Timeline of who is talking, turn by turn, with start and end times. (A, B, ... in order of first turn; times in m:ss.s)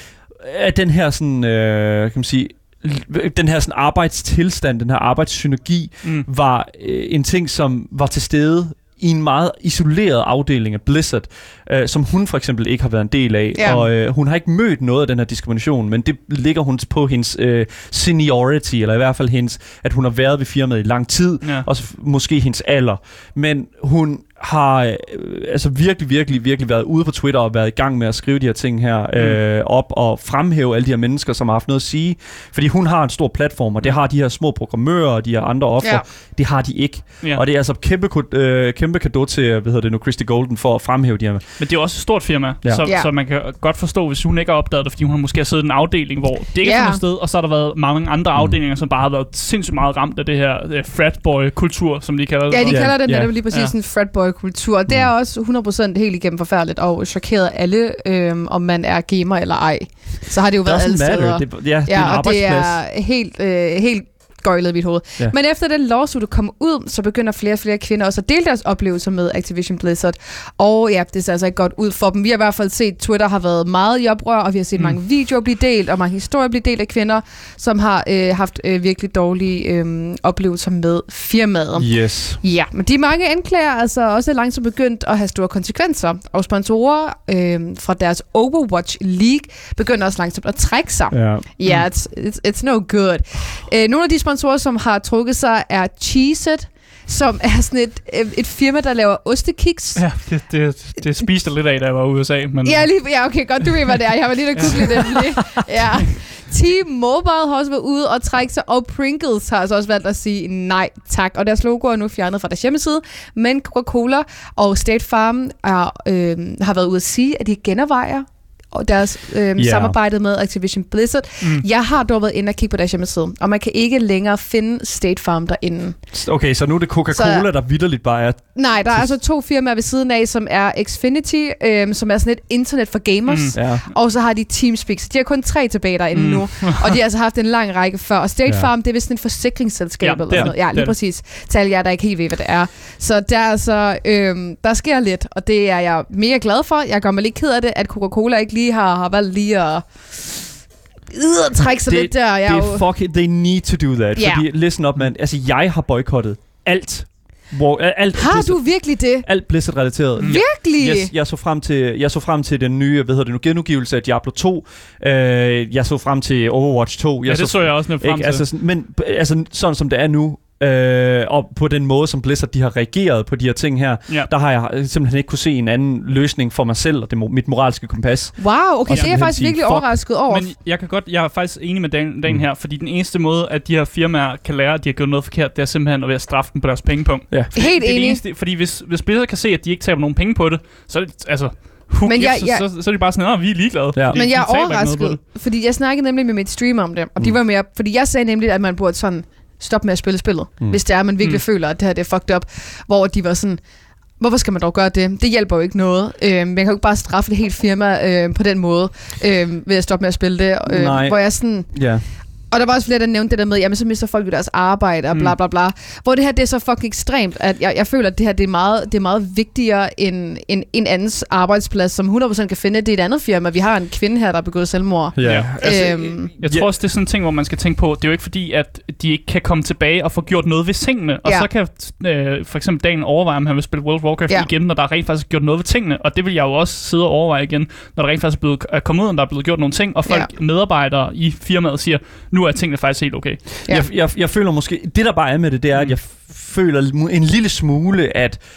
0:00.4-0:41.4 A
0:13.5-0:13.8 B
0:41.6-0:53.0 C
0:42.8-0:43.1 B
0:46.6-0:47.0 B
0:52.5-1:40.0 B
0:52.7-0:53.3 A
1:00.6-1:02.8 A
1:21.8-1:22.4 A
1:31.1-1:31.5 A
1:40.0-1:42.9 C
1:42.6-2:06.0 B
1:44.5-1:45.1 C
1:59.6-1:59.9 A
2:06.1-2:09.1 A
2:07.1-2:07.5 B
2:08.5-2:30.5 B
2:13.3-2:13.6 C
2:13.5-2:13.8 A
2:16.1-2:16.9 C
2:20.0-2:21.0 C
2:31.1-2:32.8 B
2:31.8-2:38.6 A
2:34.2-2:34.4 B
2:38.1-2:39.3 B
2:39.2-2:58.4 A
2:40.2-2:41.1 B
2:47.2-2:48.4 C
2:58.4-3:00.5 B
2:58.9-2:59.9 A
2:58.9-2:59.2 C
3:00.3-3:15.2 C
3:07.5-3:08.2 B
3:12.0-3:12.6 B
3:13.9-3:14.2 A
3:14.1-3:23.6 B
3:24.2-3:31.7 B
3:30.7-3:31.2 A
3:31.7-3:32.0 A
3:32.5-3:46.3 B
3:45.2-3:46.7 A
3:45.2-3:45.6 C
3:46.4-4:03.4 C
4:03.7-4:08.4 A